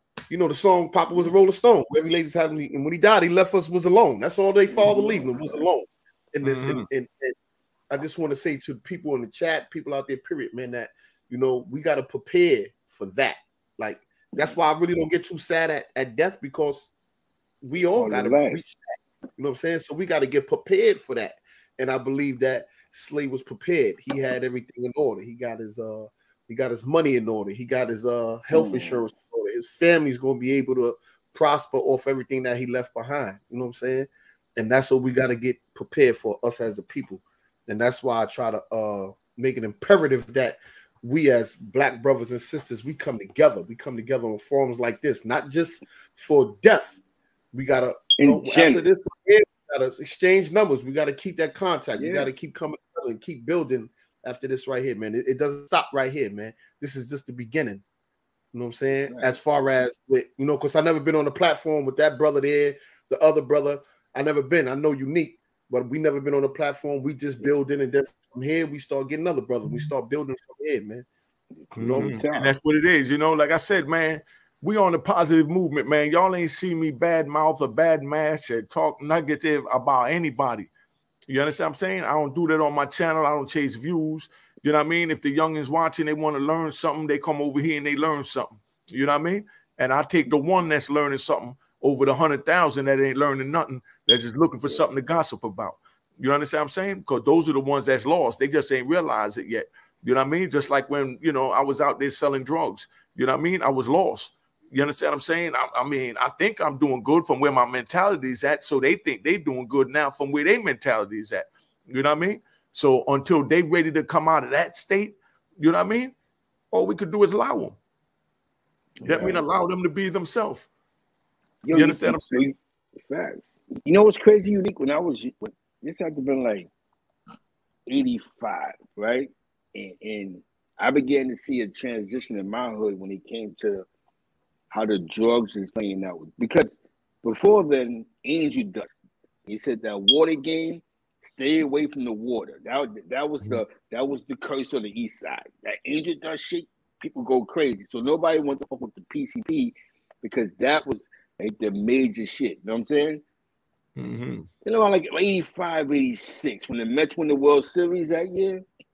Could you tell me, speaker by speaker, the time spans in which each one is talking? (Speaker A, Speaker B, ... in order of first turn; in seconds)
Speaker A: 0.3-7.3, 7.9-16.9, 17.6-18.8, 19.4-47.0, 47.5-57.8, 58.5-71.1, 71.7-72.2
Speaker B: 4.7-5.6, 18.0-18.6, 28.5-29.0, 48.2-48.8, 52.0-52.3, 59.1-59.4, 71.8-72.5, 119.0-119.4, 121.6-126.7, 127.9-133.9, 134.7-153.2, 154.7-158.6
Speaker C: 6.4-6.9, 71.8-80.7, 81.3-116.1, 116.7-117.8, 119.0-120.7, 121.7-122.5, 154.0-154.5